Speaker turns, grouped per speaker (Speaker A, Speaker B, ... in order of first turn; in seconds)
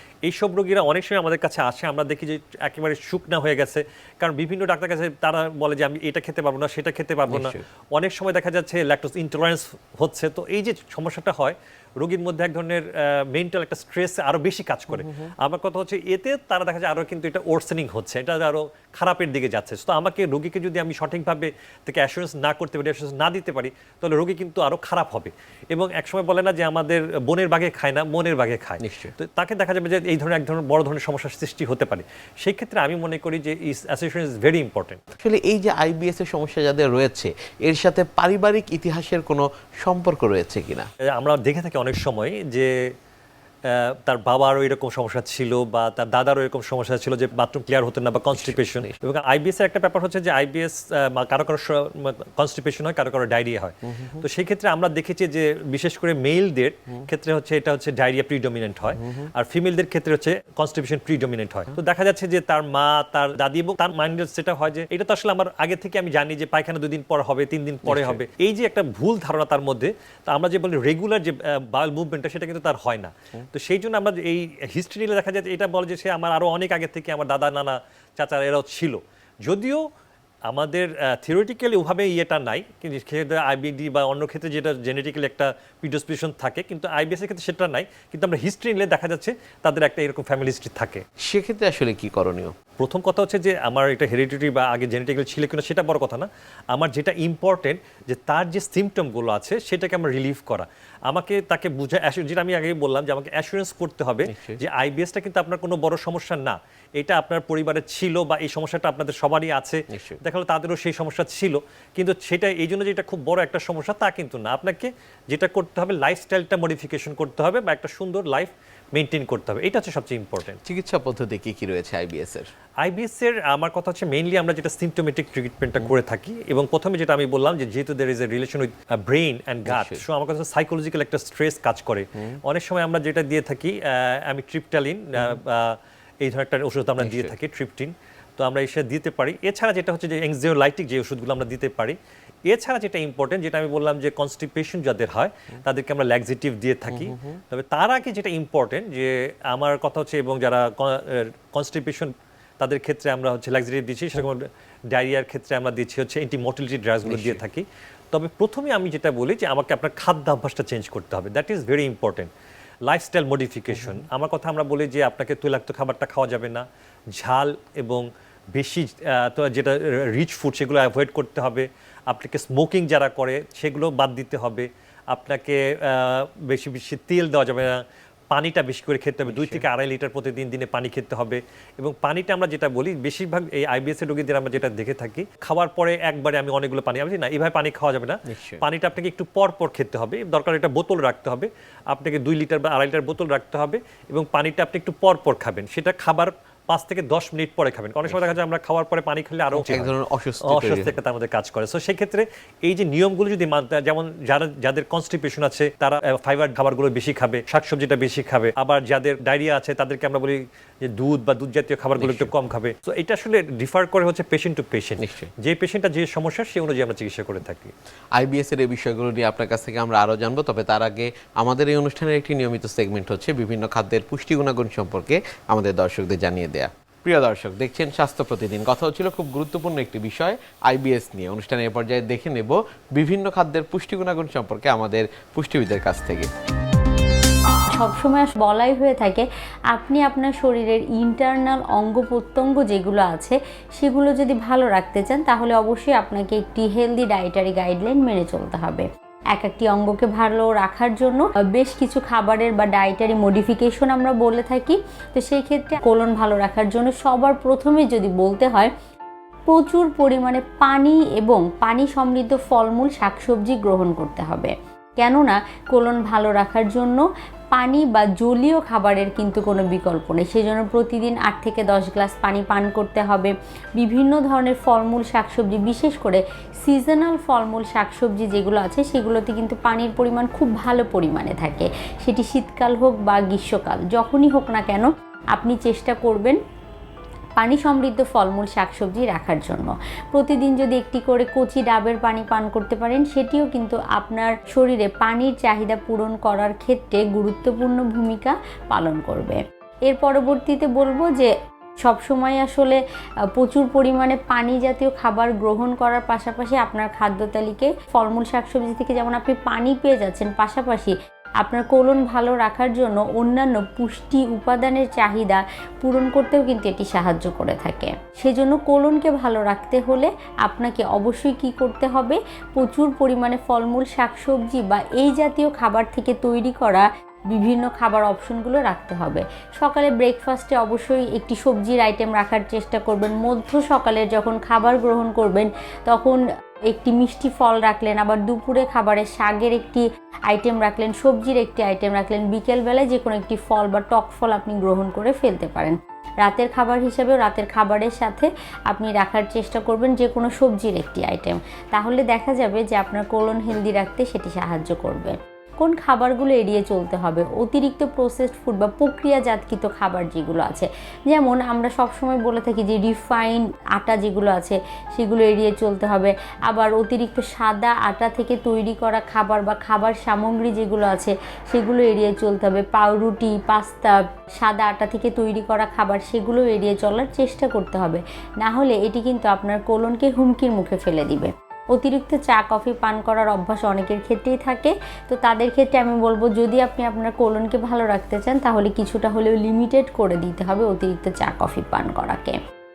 Speaker A: 0.3-35.0, 41.1-42.7, 43.7-79.8, 80.5-91.0, 92.8-120.6, 122.8-142.0, 142.5-162.3, 162.9-166.6, 167.2-177.8, 178.3-199.9, 200.4-217.7
Speaker B: 7.3-7.6, 14.9-15.3, 28.8-29.1, 35.2-40.9, 48.3-48.9, 53.9-54.2, 59.0-59.3, 67.8-68.2, 91.3-92.5, 104.3-104.6, 109.9-110.2, 120.6-122.5, 129.7-130.0, 137.0-137.3, 146.9-147.4, 157.0-157.4, 163.7-164.0, 179.3-179.6, 188.3-188.6, 198.1-198.3, 199.5-201.0, 212.0-212.3, 215.0-215.3, 218.1-236.3
Speaker C: 237.7-258.7, 259.5-286.4, 287.4-302.8, 303.4-392.4